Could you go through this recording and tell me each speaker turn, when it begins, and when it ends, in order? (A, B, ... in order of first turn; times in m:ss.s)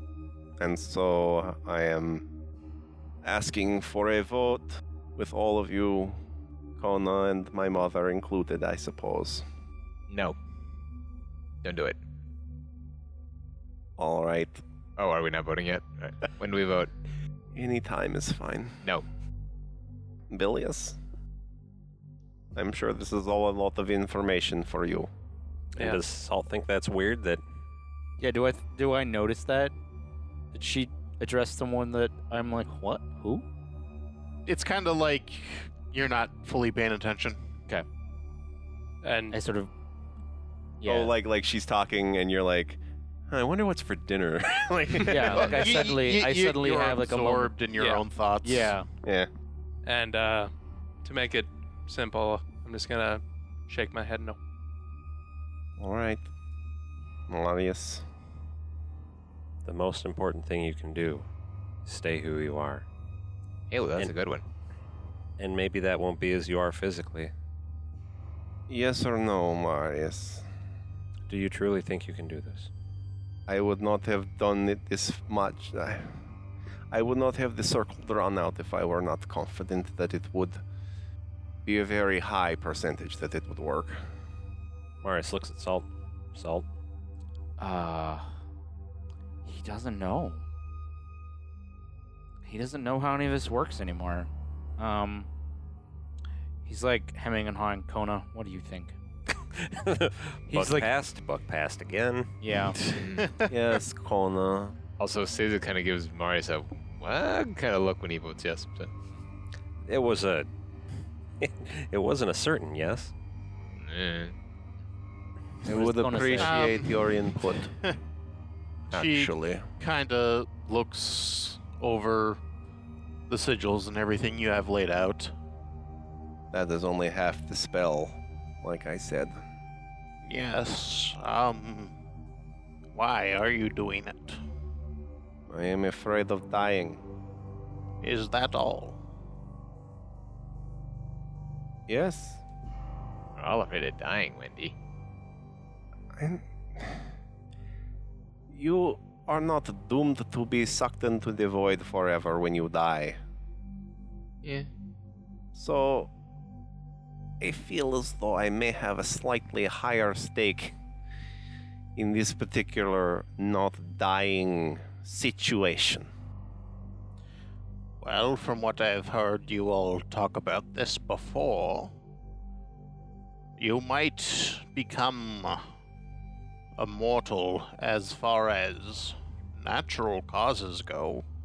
0:00.6-0:02.3 A
0:03.2-0:06.2 A
0:06.8-0:09.4 A
0:10.1-0:10.4 B
0:11.6-0:12.0 B
0:14.0-0:14.6 A
0:15.0-0:16.9 B
0:17.5-0:18.8 A
0:20.3-0:21.0 A
0:22.6-0:25.1 A
0:25.8-0:27.4 C
0:28.2-0:29.7 D
0:30.5-0:33.4 D
0:34.5-0:37.4 E
0:39.0-0:39.4 F
0:39.3-0:39.7 D
0:40.8-0:41.1 D
0:40.8-0:45.8 A
0:45.0-0:47.6 D
0:45.3-0:48.8 E
0:47.8-0:48.0 F
0:48.4-0:48.9 D
0:49.0-0:49.3 A
0:49.8-0:50.5 F
0:51.0-0:54.4 F
0:55.8-0:56.3 A
0:57.3-0:58.0 A
0:59.6-1:01.3 C
1:01.8-1:02.9 C
1:03.7-1:04.4 B
1:05.4-1:07.3 C
1:08.7-1:10.4 A
1:11.3-1:12.7 C
1:13.5-1:16.1 A
1:16.9-1:20.6 A
1:21.6-1:24.0 A
1:25.0-1:26.7 C
1:27.6-1:28.3 D
1:29.4-1:30.4 D
1:32.4-1:35.3 D
1:36.6-1:39.0 D
1:39.5-1:42.4 C
1:40.5-1:40.9 D
1:42.4-1:42.8 D
1:43.0-1:43.3 B
1:43.2-1:43.5 E
1:43.5-1:44.8 A
1:45.0-1:48.9 B
1:49.9-1:50.5 C
1:51.4-1:53.1 C
1:53.8-1:54.4 B
1:55.6-1:56.7 D
1:55.6-1:57.7 A
1:56.4-1:57.0 E
1:57.6-1:58.0 E
1:58.9-1:59.7 A
1:58.9-2:02.4 E
2:03.3-2:05.3 E
2:06.5-2:09.4 A
2:10.2-2:11.9 E
2:12.9-2:14.4 E
2:15.5-2:17.0 A
2:18.0-2:19.0 E
2:21.9-2:22.4 A
2:23.4-2:24.8 B
2:26.1-2:27.0 A
2:28.5-2:33.2 A
2:34.4-2:34.7 B
2:35.5-2:36.1 A
2:37.4-2:40.8 A
2:42.0-2:46.1 A
2:48.0-2:51.9 E
2:53.6-2:55.7 E
2:56.8-3:01.2 E